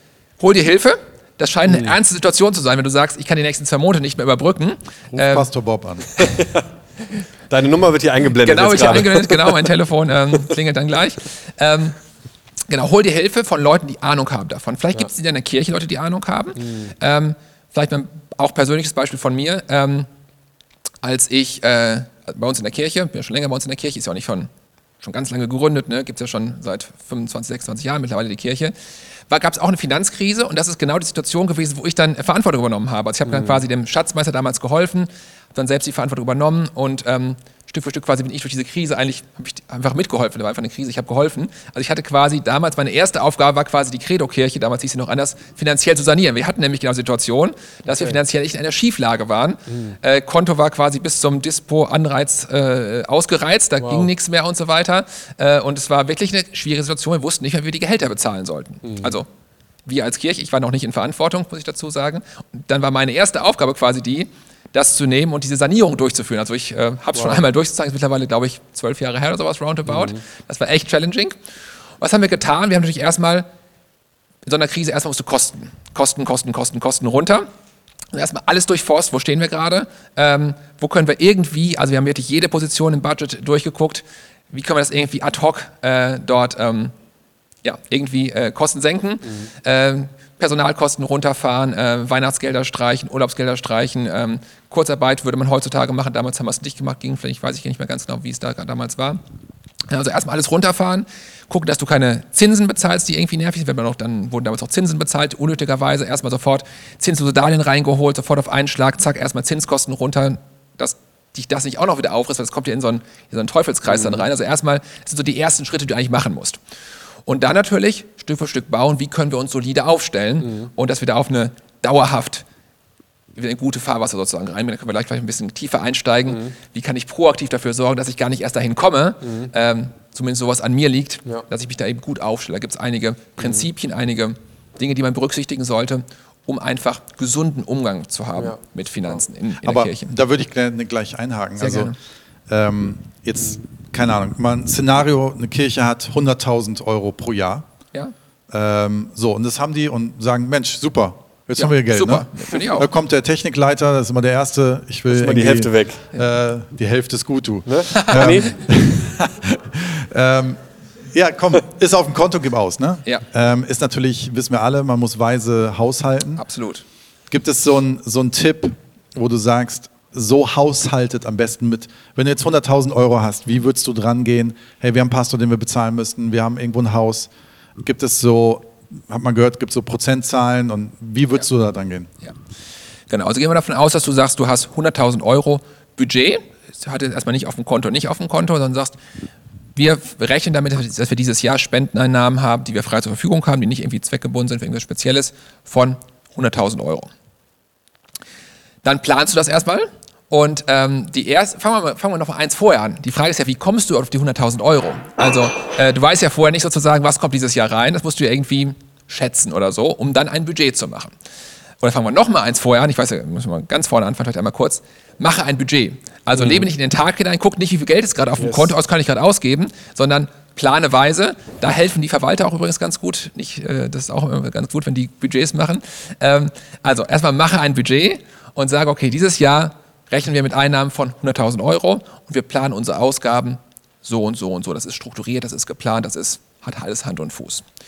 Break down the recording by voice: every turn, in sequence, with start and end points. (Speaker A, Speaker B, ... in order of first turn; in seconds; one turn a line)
Speaker A: 0.4-5.5
Speaker B: 1.7-1.9
Speaker C: 5.1-6.2
Speaker B: 6.2-6.6
Speaker B: 7.5-9.5
Speaker A: 8.4-12.0
Speaker A: 12.7-20.1
Speaker B: 16.6-16.9
Speaker A: 21.0-24.5
Speaker A: 25.0-28.7
Speaker A: 29.3-59.3
Speaker B: 33.3-33.6
Speaker B: 47.9-48.2
Speaker B: 49.7-50.0
Speaker B: 53.8-54.1
Speaker B: 58.8-59.2
Speaker A: 59.9-71.4
Speaker B: 67.1-67.4
Speaker B: 69.9-70.2
Speaker A: 72.0-73.5
Speaker A: 74.4-77.5
Speaker A: 78.1-86.9
Speaker A: 87.6-99.2
Speaker A: 99.9-116.6
Speaker B: 113.9-114.2
Speaker A: 117.2-122.4
Speaker B: 120.4-120.7
Speaker A: 123.3-140.1
Speaker B: 126.3-126.5
Speaker B: 129.2-129.5
Speaker B: 133.4-133.7
Speaker C: 139.6-141.9
Speaker A: 141.6-141.9
Speaker C: 142.5-147.7
Speaker C: 148.5-166.4
Speaker A: 151.6-152.9
Speaker B: 155.1-156.0
Speaker B: 157.7-158.5
Speaker A: 157.9-158.4
Speaker A: 166.4-166.8
Speaker C: 167.3-182.1
Speaker A: 183.1-189.0
Speaker A: 189.8-197.1
Speaker A: 198.8-211.1
Speaker A: 211.8-237.6
Speaker B: 216.3-216.7
Speaker B: 218.4-218.7